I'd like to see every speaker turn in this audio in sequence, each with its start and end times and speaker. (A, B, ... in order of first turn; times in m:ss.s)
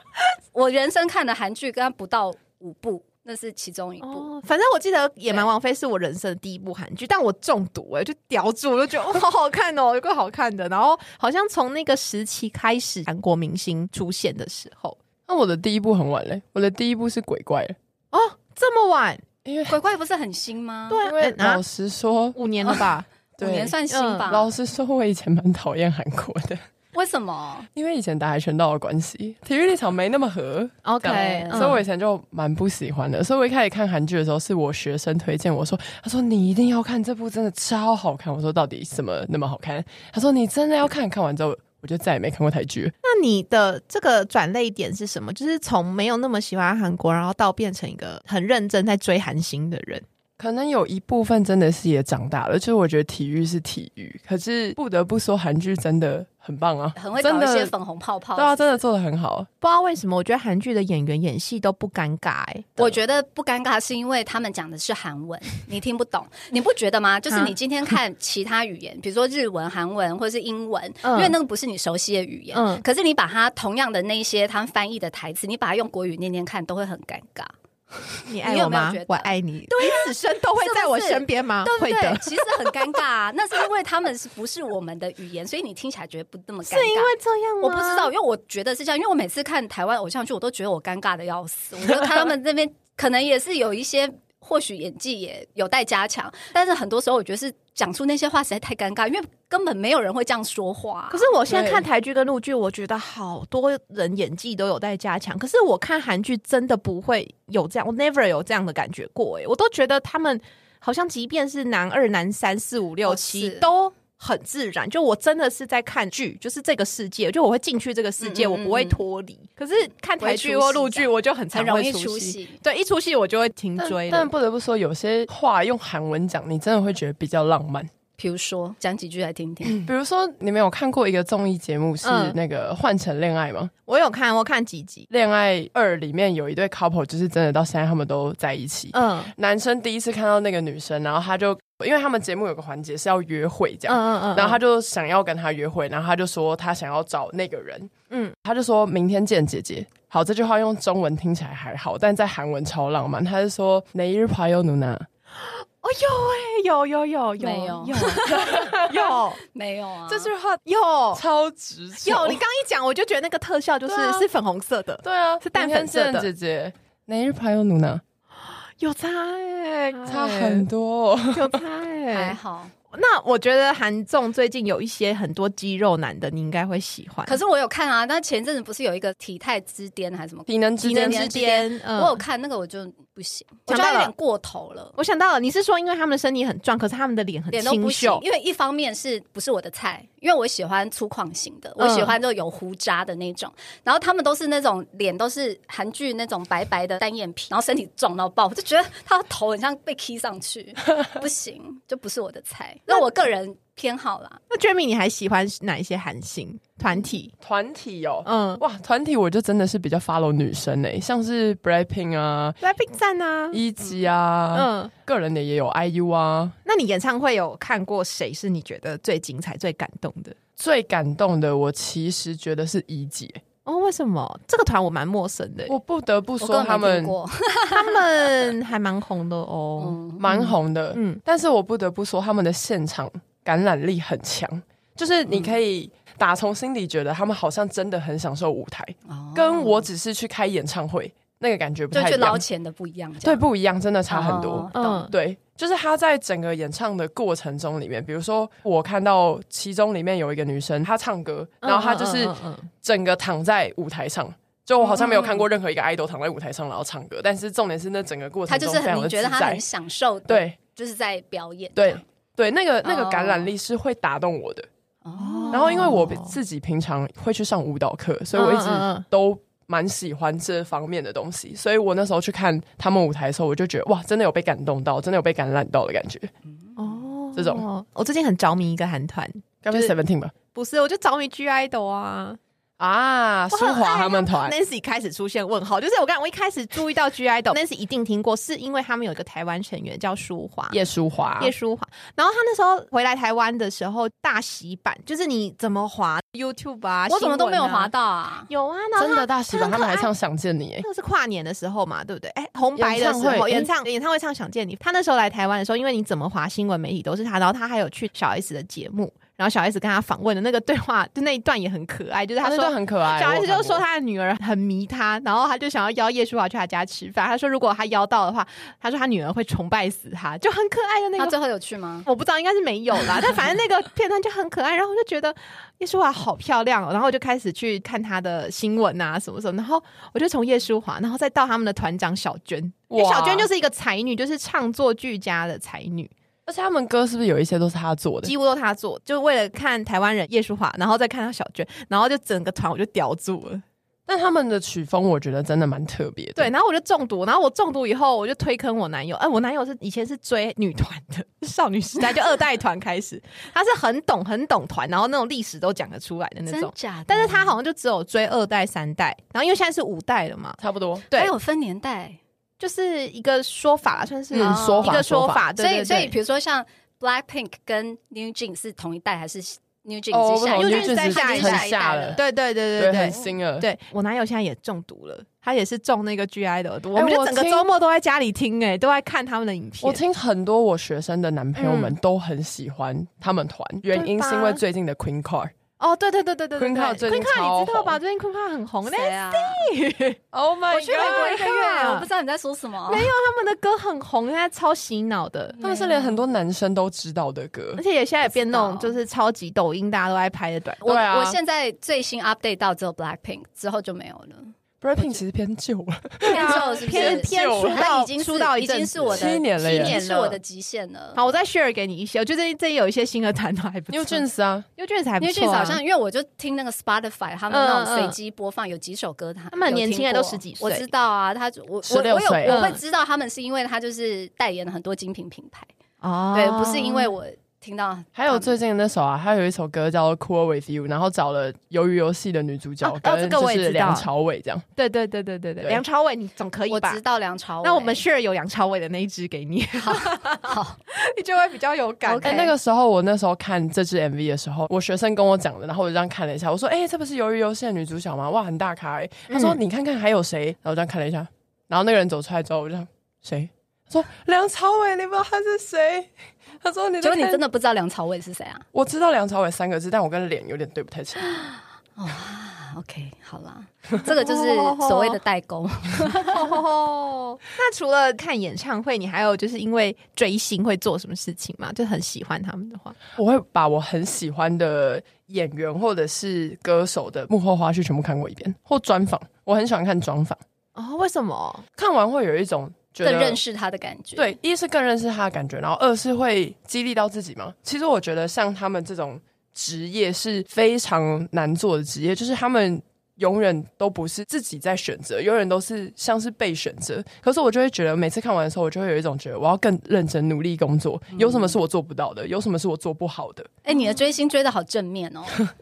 0:00.5-0:04.3 A
0:04.0-0:15.0 B
0:15.3-0:17.8 C
0:18.1-0:19.2 B
0:19.4-0:19.8 C
0:19.7-0:21.0 A
0:20.9-0:21.6 B
0:21.0-0:22.4 C
0:22.3-0:23.0 B
0:23.4-0:24.5 A
0:23.4-0:26.6 C
0:23.9-0:24.3 B
0:26.9-0:27.7 A
0:27.8-0:42.9 C
0:30.8-0:31.8 B
0:31.0-0:31.8 A
0:43.0-0:50.0 B
0:50.4-0:57.7 C
0:57.0-0:58.8 A
0:58.4-0:59.5 C
0:59.6-1:02.9 B
1:02.8-1:17.5 A
1:07.3-1:07.5 B
1:11.0-1:11.4 B
1:12.5-1:12.8 B
1:18.3-1:22.9 B
1:18.4-1:41.3 A
1:26.6-1:28.1 B
1:41.1-2:04.3 B
1:41.5-1:41.8 C
1:53.0-1:53.7 A
1:58.2-1:59.0 A
2:00.2-2:02.6 A
2:03.8-2:07.9 C
2:08.2-2:09.8 A
2:09.7-2:13.7 C
2:12.0-2:12.4 B
2:13.8-2:15.1 B
2:15.1-2:27.9 C
2:18.9-2:19.3 B
2:23.9-2:24.6 B
2:28.1-2:28.4 B
2:28.4-2:35.0 C
2:35.3-2:39.4 B
2:37.4-2:38.7 A
2:38.3-2:39.1 C
2:39.4-2:40.3 A
2:40.1-2:40.6 C
2:40.6-2:41.2 B
2:41.1-2:42.4 C
2:42.0-2:46.3 B
2:43.8-2:44.3 C
2:45.0-2:48.0 C
2:48.4-2:50.6 B
2:50.0-2:51.6 C
2:51.3-2:52.4 B
2:52.1-2:52.7 A
2:52.9-2:57.4 B
2:57.2-3:04.9 A
3:00.5-3:01.3 C
3:00.8-3:02.2 B
3:03.7-3:04.1 B
3:05.0-3:08.2 B
3:07.5-3:24.4 A
3:11.8-3:12.2 B
3:22.9-3:23.3 B
3:24.5-3:27.3 B
3:27.4-3:32.6 C
3:28.2-3:28.6 B
3:32.6-3:33.6 B
3:33.5-3:36.6 C
3:34.5-3:34.9 B
3:36.6-3:40.4 B
3:40.6-3:43.4 C
3:43.6-3:45.7 B
3:45.7-3:47.2 C
3:46.4-3:48.0 A
3:47.7-3:51.2 B
3:49.8-3:50.2 A
3:50.2-4:02.4 C
3:59.1-3:59.9 A
4:01.9-4:03.4 A
4:03.2-4:19.6 C
4:04.1-4:05.1 A
4:04.7-4:05.1 B
4:11.6-4:12.7 B
4:14.8-4:15.4 B
4:18.5-4:22.0 A
4:20.3-4:20.6 C
4:21.7-4:24.7 C
4:22.8-4:23.5 A
4:25.0-4:26.0 A
4:25.2-4:26.4 B
4:25.5-4:36.3 C
4:28.3-4:29.0 B
4:36.6-4:36.9 A
4:36.8-4:39.9 B
4:37.4-4:37.6 C
4:39.6-4:40.3 C
4:40.5-4:42.4 B
4:42.8-4:44.5 C
4:43.5-4:50.8 B
4:50.7-4:51.5 C
4:51.4-4:57.9 B
4:57.1-4:58.5 A
4:58.5-5:00.1 B
4:59.0-5:00.8 C
5:00.8-5:21.4 B
5:02.8-5:03.7 C
5:12.4-5:13.8 C
5:21.2-5:22.1 A
5:22.0-5:36.1 B
5:32.9-5:33.5 C
5:36.5-5:38.3 C
5:38.2-5:43.6 B
5:44.0-5:46.5 C
5:46.4-6:00.6 B
5:56.5-5:57.6 A
6:00.6-6:01.1 C
6:01.1-6:02.2 A
6:02.6-6:06.1 B
6:04.3-6:05.4 C
6:04.4-6:05.0 A
6:05.6-6:12.2 A
6:10.1-6:12.2 C
6:10.5-6:20.0 B
6:12.8-6:13.7 C
6:16.9-6:17.6 C
6:19.8-6:25.5 C
6:21.6-6:22.0 B
6:23.9-6:24.6 B
6:25.8-6:30.2 B
6:26.6-6:28.0 C
6:28.8-6:29.7 A
6:30.3-6:31.4 C
6:30.7-6:33.1 A
6:31.0-6:32.1 B
6:32.9-6:35.6 B
6:35.5-6:36.2 A
6:35.6-6:37.8 C
6:37.8-6:40.8 B
6:38.2-6:38.9 A
6:40.8-6:45.2 A
6:40.8-6:41.4 C
6:44.8-6:47.8 C
6:46.2-6:50.4 B
6:46.3-6:51.2 A
6:49.1-6:50.0 C
6:51.1-6:54.2 B
6:53.9-6:54.7 C
6:54.8-6:55.8 B
6:55.2-7:05.7 A
6:57.5-6:58.2 B
6:59.5-7:00.9 B
7:01.8-7:02.7 C
7:02.4-7:02.8 B
7:06.0-7:07.1 B
7:06.3-7:08.6 A
7:08.2-7:14.6 C
7:12.8-7:14.1 B
7:14.8-7:17.0 B
7:16.7-7:18.0 A
7:17.6-7:22.5 B
7:19.8-7:20.8 A
7:22.0-7:22.5 A
7:22.2-7:36.1 C
7:29.3-7:29.6 B
7:36.6-7:37.4 C
7:37.0-7:38.6 A
7:38.7-7:41.5 C
7:41.3-7:46.6 A
7:44.2-7:45.2 B
7:46.3-7:53.0 B
7:53.2-8:00.4 C
8:00.7-8:01.6 B
8:01.8-8:03.4 C
8:03.0-8:04.4 A
8:04.2-8:23.5 C
8:21.1-8:21.6 B
8:23.6-8:25.4 A
8:23.7-8:24.0 B